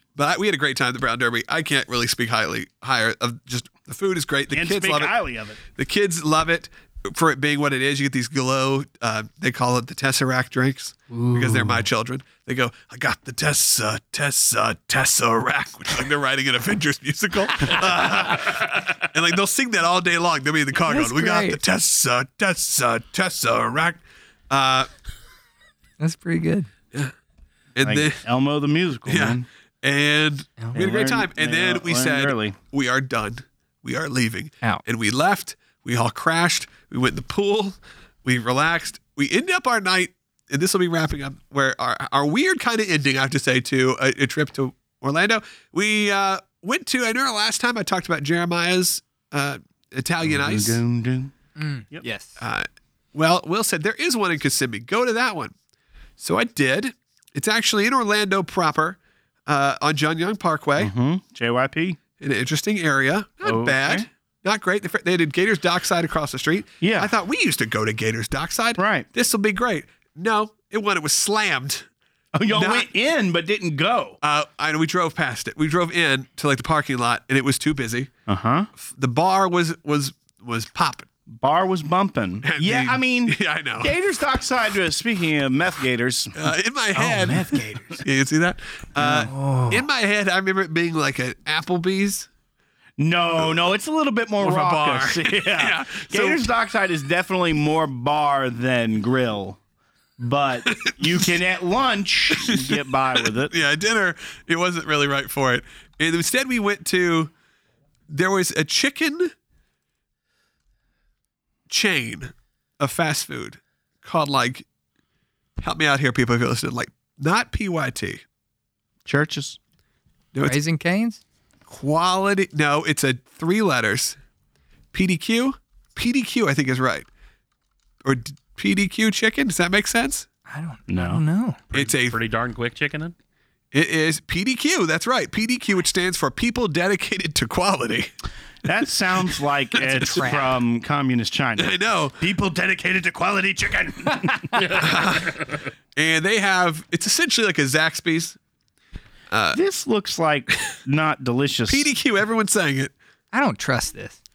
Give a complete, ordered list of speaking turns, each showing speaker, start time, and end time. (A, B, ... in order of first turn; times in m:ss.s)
0:00.2-0:24.9 A
0:04.5-0:05.6 B
0:11.1-0:11.8 C
0:20.8-0:21.6 C
0:26.0-0:26.7 C
0:27.7-0:28.2 A
0:27.8-0:29.4 B
0:29.1-0:50.8 A
0:30.7-0:32.6 B
0:50.2-0:51.3 B
0:51.6-0:52.4 C
0:52.4-0:55.5 A
0:56.2-1:00.9 A
1:00.8-1:02.0 B
1:02.2-1:11.8 A
1:03.4-1:04.0 B
1:06.8-1:07.1 B
1:08.8-1:09.1 B
1:12.3-1:14.2 B
1:12.5-1:12.9 A
1:14.2-1:18.1 A
1:18.3-1:18.7 B
1:18.8-1:21.1 A
1:21.3-1:28.0 B
1:22.4-1:23.9 A
1:26.3-1:32.3 A
1:29.1-1:29.8 C
1:33.0-1:39.6 B
1:34.4-1:36.4 A
1:40.2-1:43.5 B
1:40.7-1:41.2 A
1:42.3-1:47.3 A
1:48.1-1:49.3 A
1:51.7-1:54.6 A
1:55.6-1:58.2 A
1:59.0-1:59.6 B
2:00.4-2:01.2 C
2:01.7-2:04.2 A
2:04.9-2:07.1 A
2:08.0-2:10.2 A
2:10.5-2:11.6 C
2:10.9-2:11.2 B
2:11.7-2:13.1 D
2:11.7-2:12.2 A
2:13.7-2:18.1 A
2:18.6-2:24.8 B
2:19.2-2:20.3 A
2:19.8-2:20.5 C
2:21.6-2:22.2 A
2:24.5-2:25.6 D
2:24.7-2:28.4 A
2:29.3-2:29.6 A
2:29.5-2:31.9 B
2:31.7-2:32.9 A
2:33.3-2:34.2 C